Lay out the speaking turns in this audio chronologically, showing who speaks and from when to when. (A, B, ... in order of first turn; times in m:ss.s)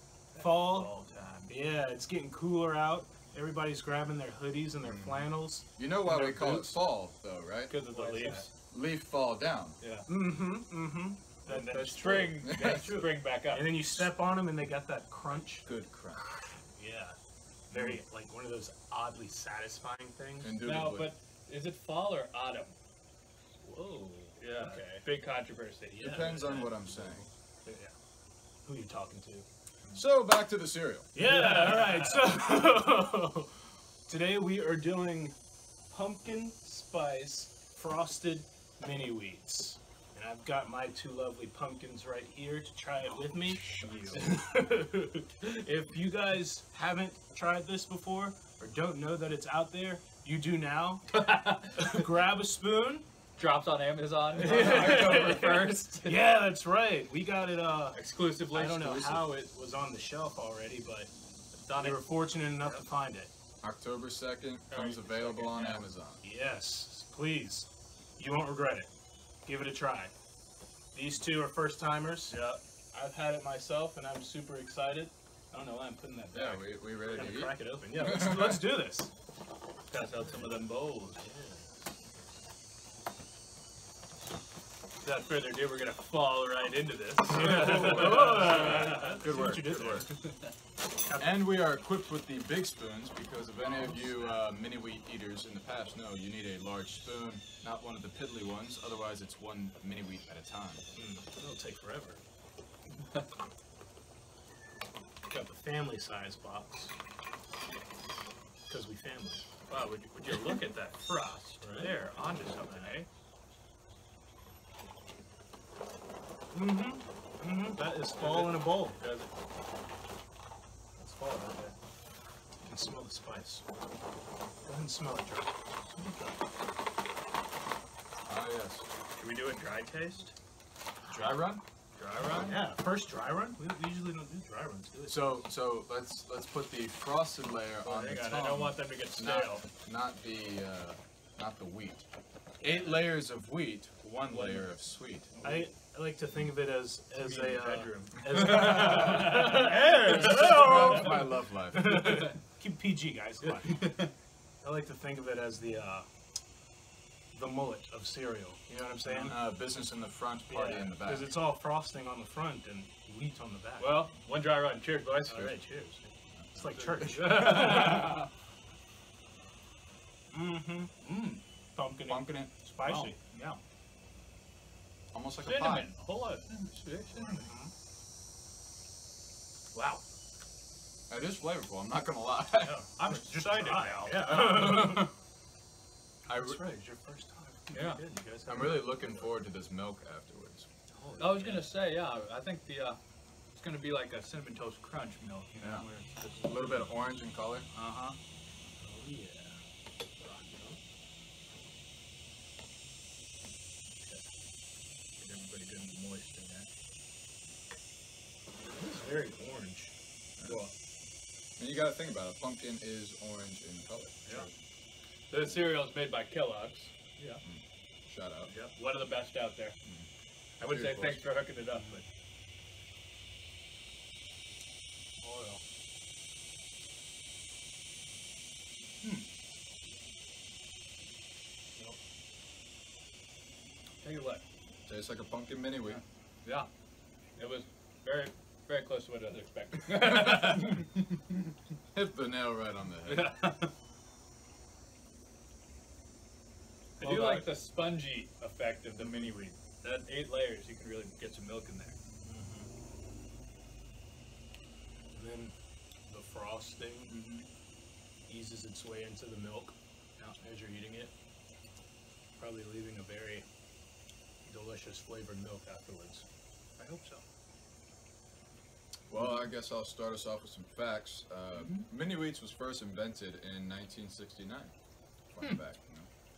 0:00.3-0:01.5 A
0:00.4-0:00.9 B
0:01.5-0:06.8 B
0:04.8-0:07.7 C
0:07.7-0:08.5 A
0:07.9-0:08.4 B
0:08.7-0:09.8 C
0:09.8-0:10.1 A
0:10.1-0:15.6 B
0:11.5-0:14.0 A
0:12.4-0:13.0 C
0:15.6-0:16.2 C
0:16.7-0:17.2 B
0:17.7-0:18.0 A
0:17.7-0:20.5 B
0:20.4-0:21.1 C
0:20.6-0:22.8 A
0:23.6-0:25.0 B
0:24.4-0:26.3 A
0:25.9-0:27.3 B
0:26.0-0:27.2 C
0:27.6-0:27.9 A
0:28.6-0:29.4 B
0:29.9-0:31.1 C
0:31.1-0:35.4 B
0:31.2-0:32.2 A
0:35.9-0:51.1 B
0:43.6-0:44.2 A
0:51.1-0:52.0 A
0:51.7-0:53.0 B
0:53.4-0:56.2 A
0:54.4-0:58.0 B
0:57.9-0:59.3 A
0:58.5-1:01.1 B
1:01.6-1:02.8 A
1:01.7-1:03.3 B
1:03.6-1:06.2 C
1:04.7-1:05.9 A
1:06.2-1:08.9 B
1:09.4-1:10.1 B
1:10.9-1:12.4 B
1:12.3-1:12.6 A
1:12.9-1:19.1 B
1:16.3-1:18.6 C
1:19.9-1:21.2 A
1:20.3-1:21.9 B
1:25.0-1:29.2 A
1:27.3-1:30.2 B
1:27.4-1:30.1 C
1:29.9-1:30.5 A
1:31.0-1:31.4 B
1:31.2-1:40.8 C
1:33.5-1:34.4 B
1:40.9-1:42.2 B
1:45.3-1:47.0 B
1:48.7-1:49.5 B
1:49.7-1:53.1 A
1:51.6-1:53.0 B
1:56.5-1:59.0 B
1:58.2-1:59.3 A
2:01.0-2:01.7 B
2:02.6-2:03.6 B
2:04.6-2:05.6 B
2:08.3-2:08.8 C
2:09.2-2:10.3 A
2:11.1-2:12.6 A
2:11.1-2:11.6 C
2:12.3-2:15.4 B
2:15.0-2:22.0 C
2:17.8-2:19.6 A
2:22.6-2:25.4 C
2:24.3-2:24.7 B
2:25.3-2:25.6 A
2:25.4-2:33.8 B
2:27.2-2:30.9 A
2:30.0-2:32.3 C
2:33.6-2:34.1 A
2:34.6-2:36.1 B
2:37.3-2:39.5 B
2:39.1-2:39.3 A
2:39.2-2:41.3 C
2:40.5-2:44.0 B
2:43.8-2:45.5 A
2:45.3-2:48.2 B
2:46.4-2:47.2 C
2:46.7-2:48.3 A
2:50.3-2:50.9 B
2:51.0-2:51.4 A
2:51.7-2:53.2 B
2:52.1-2:52.5 C
2:52.8-2:53.6 A
2:55.1-2:55.9 C
2:55.4-2:57.5 A
2:57.2-2:57.7 B
2:59.7-3:00.0 A
3:01.1-3:02.8 C
3:02.6-3:05.0 A
3:03.0-3:05.1 B
3:04.3-3:05.1 C
3:06.3-3:06.6 C
3:06.3-3:09.3 B
3:07.7-3:08.0 A
3:08.5-3:10.7 C
3:10.9-3:11.7 B
3:11.2-3:13.0 A
3:13.6-3:16.9 A
3:15.6-3:15.8 C
3:16.4-3:17.7 C
3:17.7-3:18.2 A
3:18.8-3:19.6 B
3:20.2-3:20.8 B
3:25.2-3:26.7 A
3:28.6-3:29.9 B
3:30.4-3:30.7 A
3:31.6-3:34.5 C
3:35.3-3:37.4 A
3:37.4-3:38.5 C
3:38.5-3:39.8 A
3:40.6-3:42.0 A
3:40.6-3:41.3 C
3:41.6-3:42.0 B
3:45.2-3:45.6 B
3:54.0-3:54.4 A
3:54.8-3:56.0 C
3:55.9-3:56.7 A
3:57.4-4:01.0 A
3:59.9-4:00.6 C
4:01.9-4:03.3 C
4:03.0-4:03.7 A
4:07.0-4:12.0 A
4:07.0-4:07.5 B
4:12.2-4:12.7 B
4:15.1-4:15.5 B
4:16.1-4:17.2 B
4:17.1-4:17.5 A
4:18.3-4:21.1 B
4:22.4-4:23.4 B
4:24.4-4:26.2 B
4:26.8-4:27.2 A
4:29.1-4:34.7 C
4:31.5-4:31.9 A
4:35.3-4:36.1 C